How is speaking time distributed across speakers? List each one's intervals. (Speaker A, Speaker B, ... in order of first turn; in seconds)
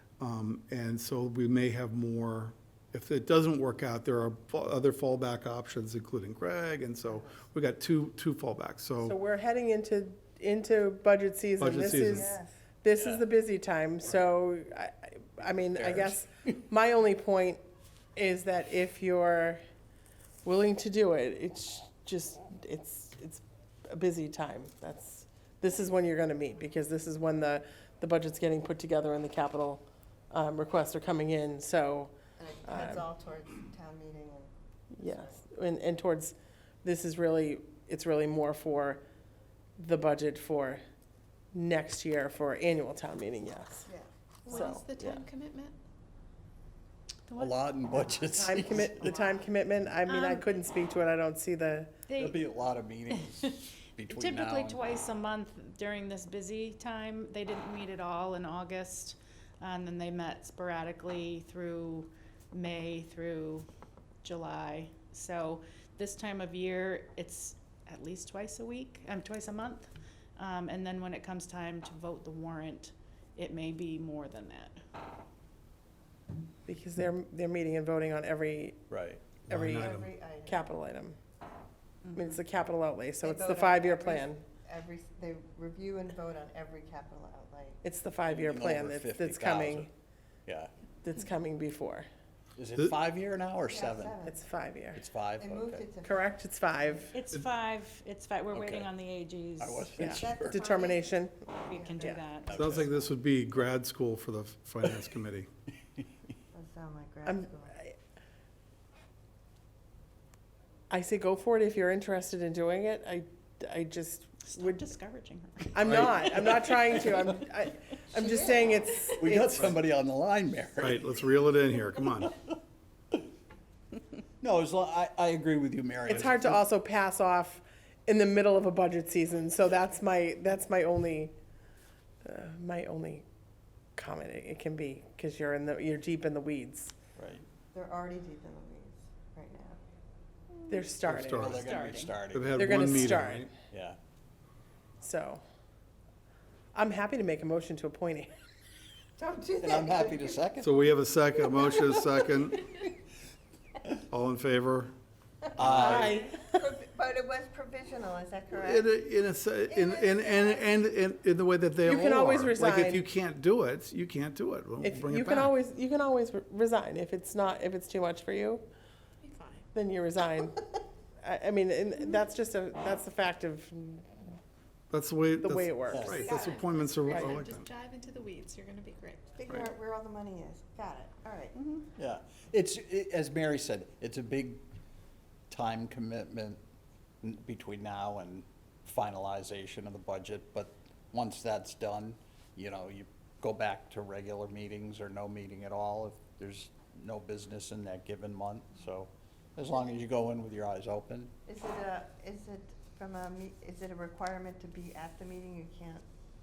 Speaker A: 0.2-9.2, 11.6-12.3, 79.5-80.1, 102.6-105.5, 115.8-116.3, 120.8-122.3, 141.1-141.6, 142.3-143.5, 150.6-152.7, 154.1-154.9, 155.6-156.1, 158.5-165.5, 174.9-177.7
Speaker B: 7.1-7.3, 12.1-12.5, 32.4-35.4, 48.1-49.5, 79.7-80.7, 83.2-87.8, 93.7-94.3, 95.3-96.3, 100.1-101.0, 101.7-102.2, 106.5-107.8, 118.2-118.8, 137.7-139.8, 149.2-150.5, 155.6-158.9, 159.7-160.7, 179.4-181.5, 201.4-206.0
Speaker C: 9.0-12.3, 12.8-17.6, 18.1-19.6, 20.4-33.0, 34.9-39.0, 39.8-40.8, 41.5-43.9, 44.5-45.2, 48.3-52.0, 76.7-78.8, 79.5-81.2, 82.1-84.4, 87.8-89.9, 91.0-92.1, 94.2-95.0, 96.0-97.1, 100.0-102.2, 107.2-107.9, 110.9-114.8, 115.7-119.8, 126.1-131.3, 132.2-133.2, 133.9-136.9, 140.7-141.6, 142.5-143.5, 145.0-145.4, 146.7-148.3, 155.7-156.6, 161.8-163.0, 164.8-168.6, 169.7-170.6, 171.2-174.1, 175.4-176.2
Speaker D: 13.0-13.2, 15.8-16.2, 47.3-49.0, 52.1-55.0, 78.9-79.4, 88.2-89.9, 90.5-90.7, 92.5-94.2, 94.9-95.9, 98.5-98.9, 99.6-100.6, 102.5-102.9, 119.2-121.3, 124.4-126.6, 137.2-137.4, 141.1-144.0, 149.6-150.8, 155.6-156.2, 175.9-176.3, 181.9-184.6, 185.5-186.6, 187.2-201.3
Speaker E: 44.5-45.7, 47.3-47.6, 50.1-50.5, 52.1-52.4, 54.1-63.7, 64.2-74.8, 82.0-82.4, 97.1-100.1, 101.7-102.6, 114.4-116.5, 140.6-141.0, 141.5-142.2, 169.2-169.6, 176.2-179.3, 181.5-181.9